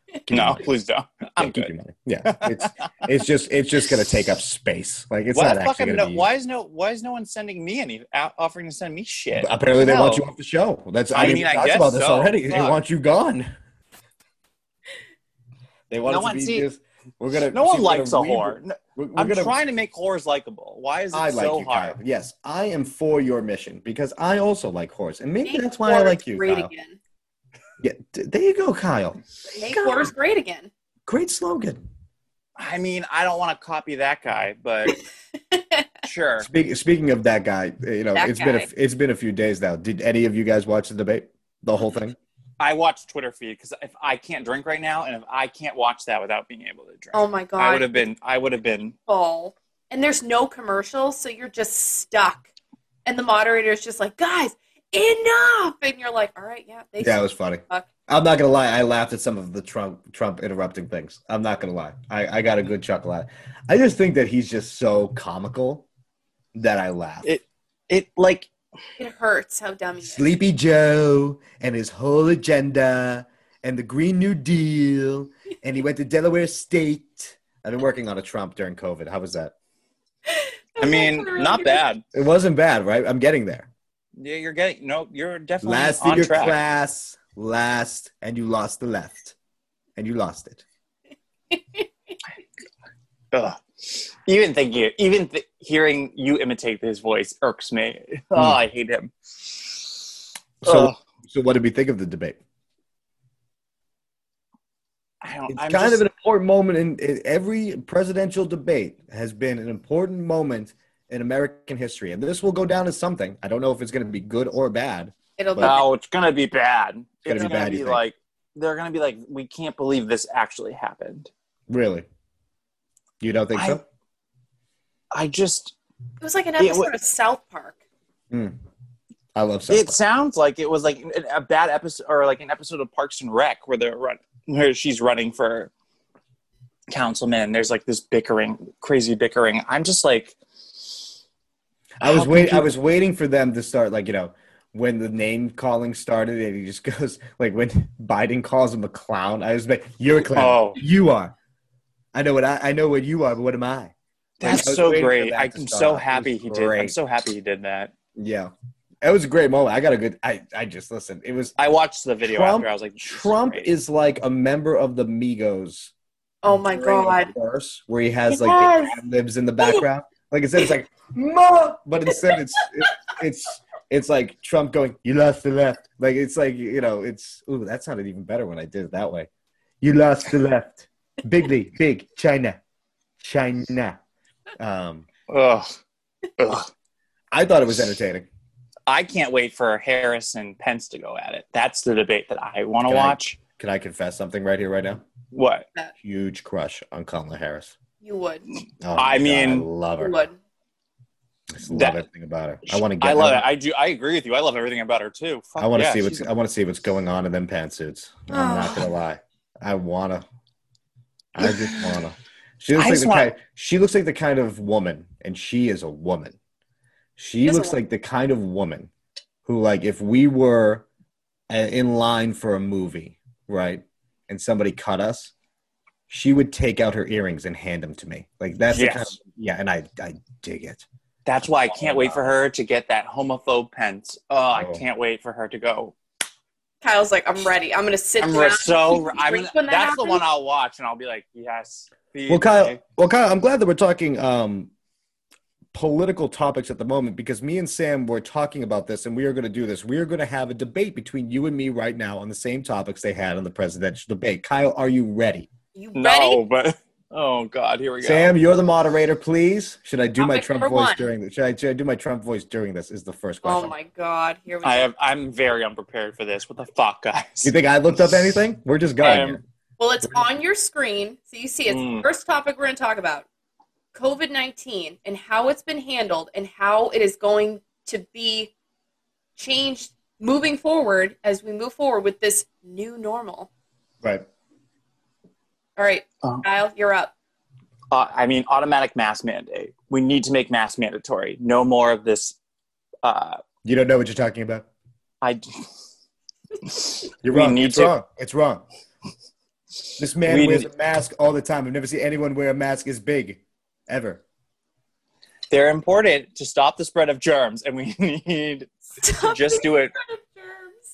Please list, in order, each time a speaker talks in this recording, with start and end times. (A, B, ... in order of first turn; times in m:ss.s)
0:00.3-0:00.6 A
0:00.3-0:01.7 B
0:01.4-0:06.3 A
0:02.2-0:02.7 B
0:05.3-0:10.2 B
0:09.4-0:13.5 A
0:11.1-0:12.8 B
0:15.9-0:19.6 A
0:16.1-0:16.7 B
0:17.5-0:22.0 B
0:21.1-0:26.7 A
0:25.4-0:27.0 C
0:27.8-0:30.1 A
0:29.5-0:30.7 C
0:31.1-0:31.8 A
0:32.6-0:35.0 B
0:35.5-0:35.9 C
0:36.0-0:36.5 B
0:36.4-0:42.2 A
0:38.2-0:38.7 C
0:42.6-0:49.0 B
0:47.1-0:48.0 C
0:49.1-0:52.5 C
0:53.1-0:57.9 C
0:57.0-1:05.9 A
1:06.6-1:07.3 A
1:07.2-1:08.5 B
1:09.0-1:10.3 C
1:10.0-1:19.5 A
1:20.3-1:21.9 C
1:20.8-1:22.0 B
1:22.1-1:23.7 A
1:24.2-1:26.6 B
1:25.6-1:29.4 A
1:30.0-1:30.6 A
1:33.3-1:39.9 B
1:40.6-1:42.4 A
1:40.6-1:41.0 B
1:45.2-1:46.0 B
1:45.5-1:55.8 A
1:55.4-1:55.9 C
1:55.6-2:01.3 B
1:57.2-1:58.0 A
2:01.7-2:02.0 A
2:03.2-2:03.8 A
2:03.5-2:03.8 B
2:05.1-2:05.8 B
2:06.2-2:07.8 C
2:06.6-2:06.9 B
2:08.3-2:08.6 A
2:09.4-2:10.0 A
2:09.7-2:15.7 B
2:16.9-2:20.4 B
2:22.0-2:31.3 A
2:22.0-2:22.7 B
2:30.3-2:30.8 B
2:32.1-2:36.9 A
2:34.4-2:37.9 B
2:38.2-2:38.5 A
2:39.0-2:41.6 A
2:41.6-2:43.7 B
2:42.3-2:45.9 A
2:46.4-2:47.3 C
2:46.5-2:59.3 A
2:48.3-2:49.0 C
2:49.6-2:49.9 C
2:59.8-3:02.6 A
3:03.2-3:04.0 A
3:04.6-3:05.1 A
3:05.3-3:05.8 B
3:06.4-3:06.7 B
3:07.3-3:08.3 A
3:08.9-3:13.4 B
3:12.8-3:15.0 A
3:15.3-3:15.7 B
3:16.0-3:17.7 A
3:18.0-3:18.5 C
3:18.8-3:20.2 A
3:19.0-3:19.7 B
3:20.0-3:20.4 C
3:21.6-3:23.4 A
3:21.7-3:22.0 B
3:22.7-3:26.3 B
3:25.6-3:30.2 A
3:28.3-3:28.9 C
3:31.3-3:36.4 A
3:31.4-3:31.8 B
3:32.7-3:33.3 B
3:37.2-3:38.9 A
3:37.4-3:37.8 C
3:39.4-3:40.9 A
3:41.5-3:45.3 A
3:46.1-3:50.8 A
3:48.7-3:49.2 B
3:51.3-3:56.0 B
3:51.7-3:52.3 A
3:54.6-3:54.8 A
3:56.8-4:00.2 C
3:58.2-4:02.8 B
4:02.3-4:04.7 A
4:05.7-4:15.5 A
4:15.8-4:16.4 C
4:16.0-4:18.4 B
4:18.0-4:23.7 A
4:20.2-4:21.1 C
4:23.4-4:24.9 C
4:24.6-4:27.5 B
4:27.4-4:29.4 A
4:29.0-4:29.4 B
4:29.8-4:33.3 C
4:31.7-4:32.1 B
4:33.9-4:38.5 C
4:39.4-4:43.5 C
4:45.8-4:47.1 C
4:47.9-4:52.4 B
4:53.0-4:53.4 B
4:53.6-4:54.7 A
4:56.6-4:57.9 B
4:57.2-4:58.6 A
5:00.0-5:04.2 A
5:00.3-5:00.7 B
5:05.5-5:09.9 B
5:09.0-5:10.8 C